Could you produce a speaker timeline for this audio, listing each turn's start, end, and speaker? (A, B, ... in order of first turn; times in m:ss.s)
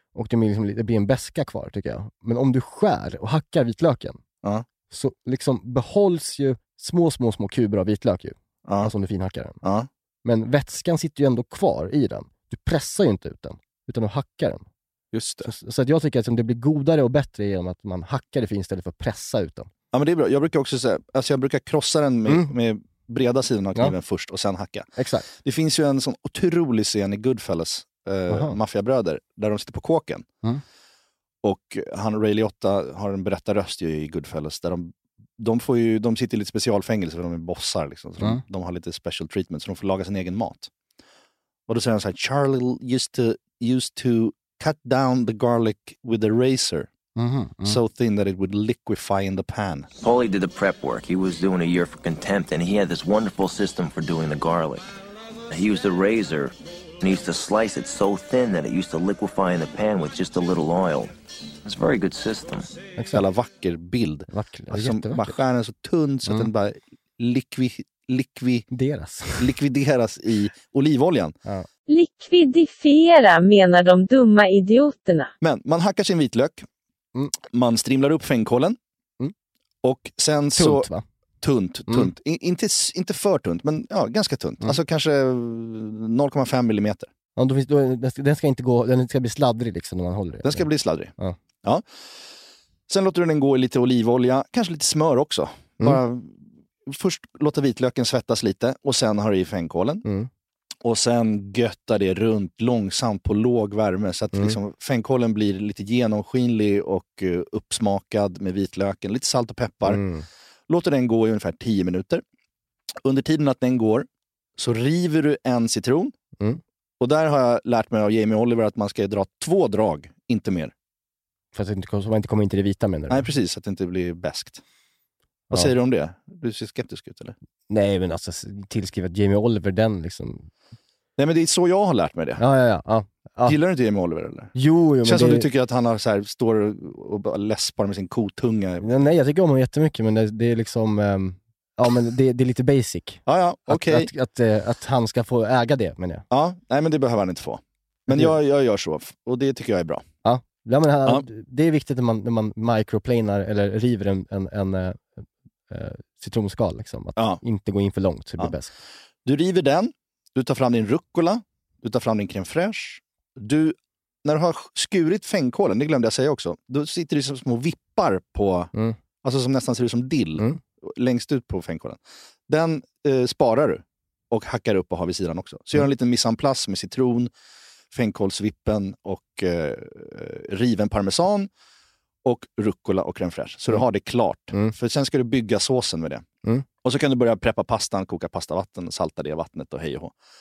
0:00.1-0:04.2 A
0:04.9-0:09.6 A
0:08.6-0:08.9 B
0:09.6-0:09.9 B
0:10.2-0:14.6 A
0:15.1-0:15.5 B
0:15.4-0:19.7 A
0:19.9-0:24.9 B
0:22.3-0:22.5 A
0:25.0-0:25.3 A
0:25.4-0:30.3 B
0:28.3-0:28.6 A
0:31.4-0:40.7 B
0:41.7-0:46.9 B
0:47.2-0:47.8 A
0:47.6-0:49.9 B
0:50.0-0:54.9 C
0:55.5-1:01.1 C
1:01.6-1:02.7 C
1:03.0-1:03.2 A
1:03.1-1:08.7 B
1:04.3-1:05.4 A
1:08.7-1:09.5 A
1:09.4-1:11.3 B
1:11.9-1:15.3 D
1:15.4-1:16.6 B
1:17.5-1:18.8 B
1:19.8-1:20.9 B
1:20.6-1:21.0 A
1:21.4-1:27.1 B
1:27.4-1:30.6 A
1:30.4-1:31.1 B
1:32.9-1:40.0 B
1:40.8-1:50.0 B
1:49.8-1:50.2 A
1:50.7-1:52.2 B
1:53.0-1:56.1 B
1:57.0-2:00.7 B
2:01.5-2:03.3 A
2:03.1-2:04.6 B
2:05.5-2:07.3 B
2:07.7-2:10.5 A
2:11.2-2:12.4 B
2:12.4-2:13.6 A
2:13.4-2:14.5 B
2:14.5-2:15.5 A
2:15.0-2:18.9 B
2:18.8-2:26.2 A
2:23.3-2:24.1 B
2:26.3-2:30.0 B
2:28.1-2:28.3 A
2:30.2-2:35.2 A
2:35.7-2:38.7 A
2:39.2-2:48.7 B
2:49.2-2:57.3 B
2:57.9-3:01.5 B
3:02.2-3:06.2 B
3:06.8-3:10.1 B